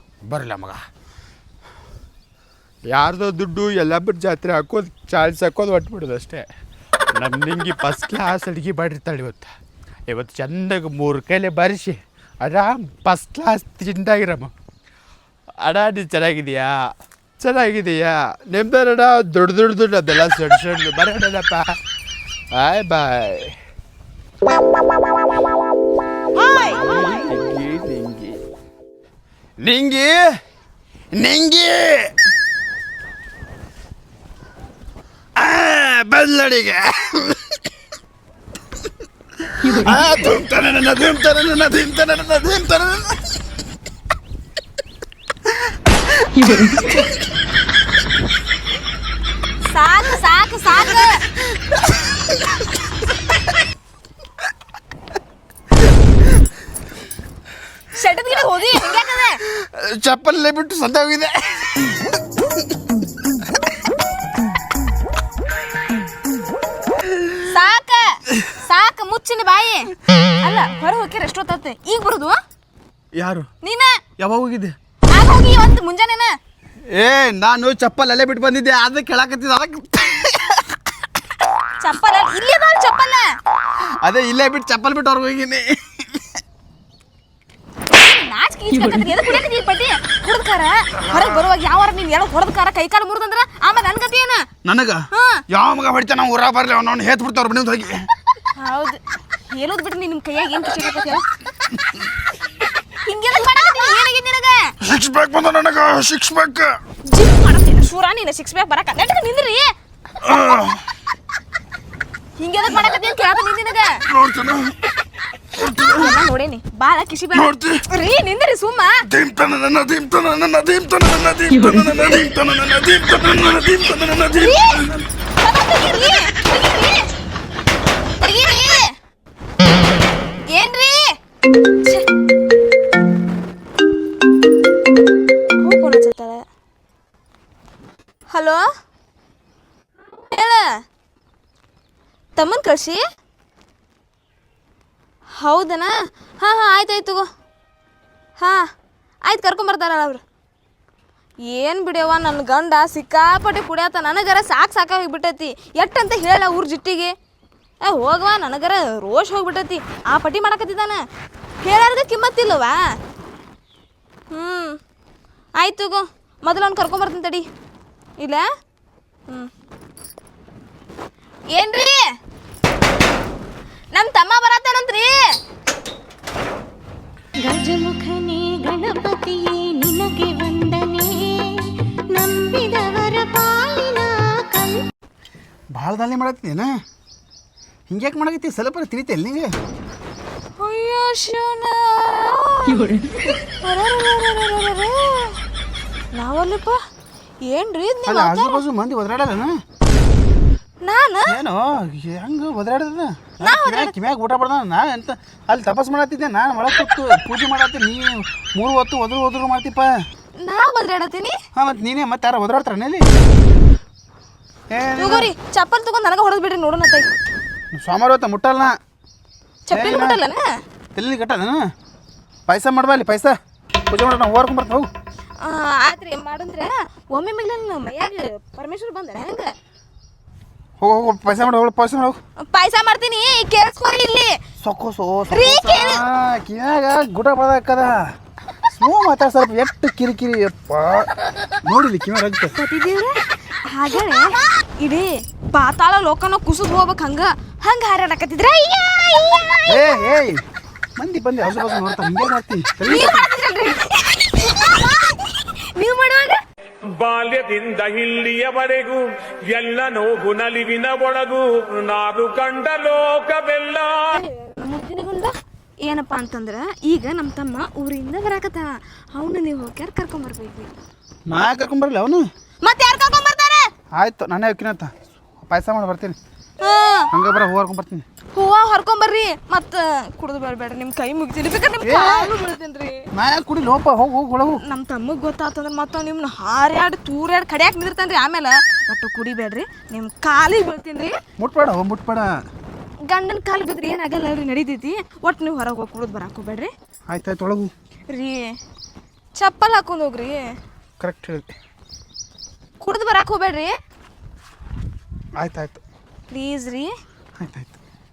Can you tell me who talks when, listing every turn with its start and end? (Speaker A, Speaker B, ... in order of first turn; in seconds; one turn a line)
Speaker A: 0.3-0.8
Speaker A: 2.9-6.4
Speaker A: 7.2-9.5
Speaker A: 10.1-14.5
Speaker A: 15.6-16.7
Speaker A: 17.4-21.8
Speaker A: 22.5-23.5
Speaker A: 26.8-28.4
Speaker A: 29.6-30.2
Speaker A: 31.1-32.1
Speaker A: 35.4-37.6
Speaker A: 39.5-43.2
Speaker A: 46.2-47.1
Speaker B: 49.7-51.2
Speaker B: 58.0-59.4
Speaker A: 59.6-62.1
Speaker B: 67.4-69.9
Speaker B: 70.4-72.4
Speaker A: 73.2-73.5
Speaker B: 73.6-74.0
Speaker A: 74.2-74.7
Speaker B: 75.1-76.3
Speaker A: 76.9-80.6
Speaker B: 81.8-83.3
Speaker A: 84.0-86.3
Speaker B: 87.9-94.4
Speaker A: 94.6-98.0
Speaker B: 95.1-95.4
Speaker B: 98.6-101.2
Speaker B: 103.0-104.7
Speaker A: 104.8-106.8
Speaker B: 107.1-109.7
Speaker A: 110.2-110.8
Speaker B: 112.4-114.0
Speaker A: 114.1-114.8
Speaker A: 115.5-116.1
Speaker B: 115.9-118.9
Speaker A: 117.3-117.8
Speaker A: 119.1-125.0
Speaker B: 124.3-124.8
Speaker B: 125.4-127.0
Speaker B: 128.2-128.9
Speaker B: 130.5-131.1
Speaker B: 135.6-136.4
Speaker B: 138.3-138.6
Speaker B: 140.3-140.7
Speaker B: 142.4-143.0
Speaker B: 145.4-147.2
Speaker B: 148.4-148.7
Speaker B: 149.3-150.2
Speaker B: 151.5-157.1
Speaker B: 157.8-161.0
Speaker B: 161.6-162.8
Speaker B: 164.3-164.8
Speaker B: 165.6-167.4
Speaker B: 168.2-168.4
Speaker B: 171.5-172.0
Speaker B: 173.9-175.2
Speaker C: 177.4-181.5
Speaker C: 182.1-184.8
Speaker A: 185.7-186.7
Speaker A: 187.9-189.5
Speaker B: 190.6-192.9
Speaker B: 193.6-195.3
Speaker B: 196.2-196.8
Speaker B: 197.4-198.6
Speaker A: 198.1-199.6
Speaker B: 200.8-201.4
Speaker A: 201.3-209.9
Speaker B: 203.4-203.9
Speaker B: 210.4-211.3
Speaker A: 211.6-213.1
Speaker A: 214.7-215.3
Speaker B: 214.9-217.1
Speaker A: 217.7-218.8
Speaker B: 219.7-220.4
Speaker A: 219.7-220.2
Speaker A: 220.9-221.6
Speaker A: 222.5-223.4
Speaker A: 223.9-224.9
Speaker B: 225.4-229.5
Speaker A: 230.8-232.2
Speaker B: 232.5-234.3
Speaker A: 234.6-237.9
Speaker B: 235.3-236.0
Speaker A: 238.7-241.1
Speaker A: 241.7-242.5
Speaker B: 242.6-243.1
Speaker B: 243.7-249.6
Speaker A: 249.7-250.4
Speaker A: 251.0-253.3
Speaker B: 252.8-256.4
Speaker D: 256.9-264.2
Speaker B: 264.1-265.3
Speaker B: 265.8-270.7
Speaker A: 271.3-272.2
Speaker B: 272.6-273.6
Speaker A: 274.0-274.9
Speaker A: 275.5-276.2
Speaker B: 276.6-277.1
Speaker A: 277.1-278.0
Speaker B: 278.4-283.1
Speaker A: 281.8-282.3
Speaker A: 283.1-284.6
Speaker B: 284.6-291.1
Speaker A: 291.4-292.3
Speaker B: 293.1-296.7
Speaker A: 297.1-297.7
Speaker B: 298.1-298.5
Speaker B: 299.4-300.4
Speaker A: 301.0-301.5
Speaker B: 302.8-303.7
Speaker A: 305.4-305.8
Speaker B: 306.3-306.9
Speaker A: 307.4-307.7